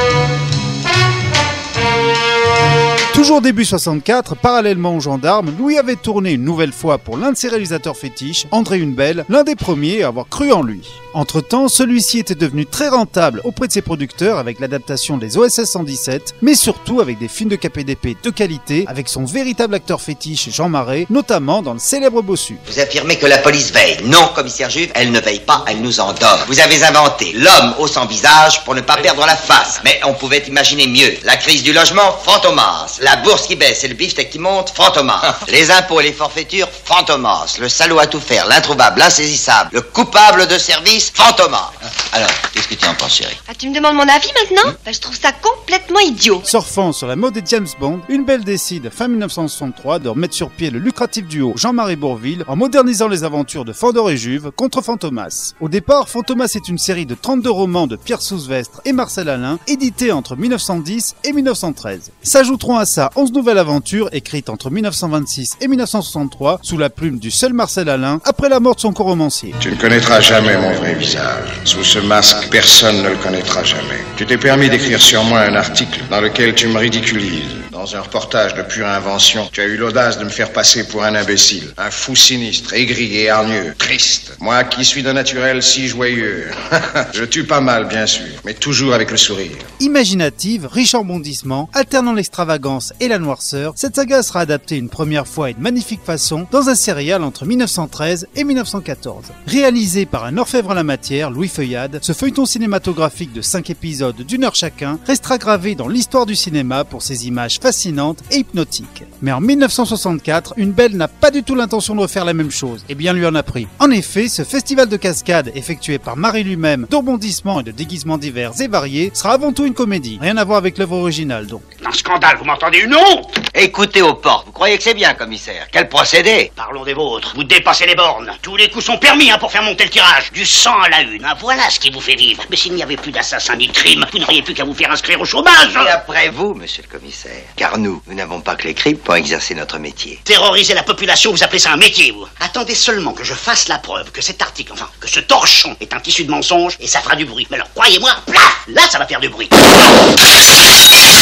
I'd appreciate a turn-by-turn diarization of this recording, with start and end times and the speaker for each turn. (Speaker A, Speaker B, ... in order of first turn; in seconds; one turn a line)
Speaker A: 3.1-22.6
Speaker B: 22.7-43.4
Speaker C: 43.5-46.5
Speaker A: 46.5-69.6
Speaker D: 69.6-89.7
Speaker A: 89.8-121.7
Speaker E: 121.8-123.3
Speaker B: 123.5-126.5
Speaker E: 126.6-135.9
Speaker B: 135.7-140.2
Speaker E: 140.3-149.6